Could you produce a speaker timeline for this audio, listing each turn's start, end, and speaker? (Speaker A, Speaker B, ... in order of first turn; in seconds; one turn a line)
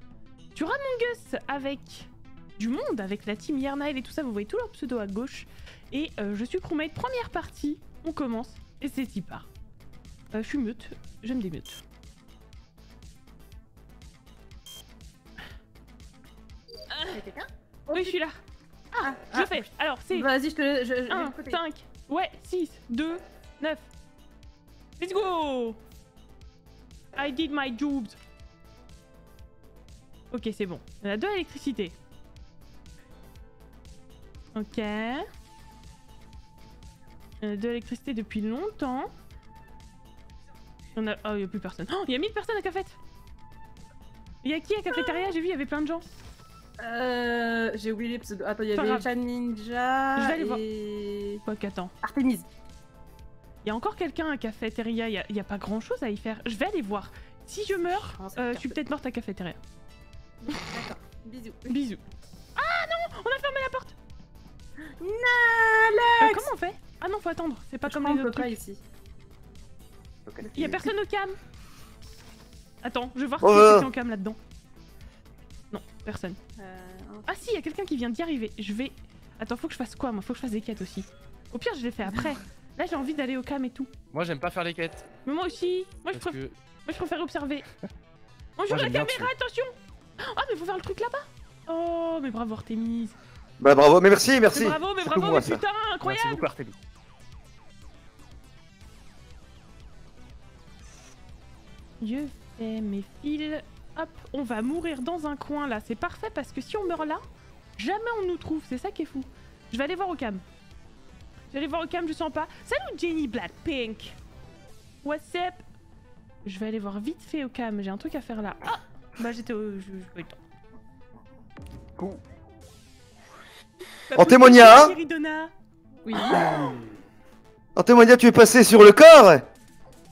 Speaker A: 0.5-9.4
Speaker A: 10.3-11.8
Speaker A: 16.9-17.2
Speaker B: 17.1-18.2
Speaker A: 17.9-18.4
Speaker B: 18.9-19.6
Speaker A: 19.0-20.3
Speaker B: 20.1-21.6
Speaker A: 21.1-23.9
Speaker A: 25.0-25.8
Speaker A: 27.1-28.2
Speaker A: 30.3-31.9
Speaker A: 34.5-35.3
Speaker A: 37.4-39.1
Speaker A: 40.9-43.0
Speaker A: 44.4-46.0
Speaker B: 46.8-51.4
Speaker A: 48.7-49.1
Speaker A: 50.1-50.6
Speaker A: 51.4-51.9
Speaker B: 52.0-52.5
Speaker A: 53.6-59.6
Speaker B: 57.9-58.8
Speaker B: 60.5-61.8
Speaker A: 61.7-62.0
Speaker A: 62.5-63.9
Speaker B: 65.0-66.5
Speaker A: 66.2-68.5
Speaker B: 67.9-68.8
Speaker C: 70.3-70.7
Speaker B: 70.4-70.8
Speaker A: 70.5-71.4
Speaker A: 72.8-74.4
Speaker C: 73.4-73.9
Speaker A: 75.7-76.4
Speaker B: 76.6-77.3
Speaker A: 77.3-83.9
Speaker D: 84.1-85.0
Speaker A: 85.2-87.7
Speaker D: 86.1-86.5
Speaker A: 88.6-93.2
Speaker D: 88.7-89.3
Speaker C: 93.6-95.6
Speaker A: 94.5-96.5
Speaker D: 96.0-96.8
Speaker A: 102.0-107.2
Speaker A: 107.8-110.4
Speaker A: 111.5-114.2
Speaker A: 115.0-115.6
Speaker A: 116.4-120.4
Speaker A: 124.1-125.5
Speaker C: 124.1-124.9
Speaker B: 126.0-126.7
Speaker C: 127.8-129.4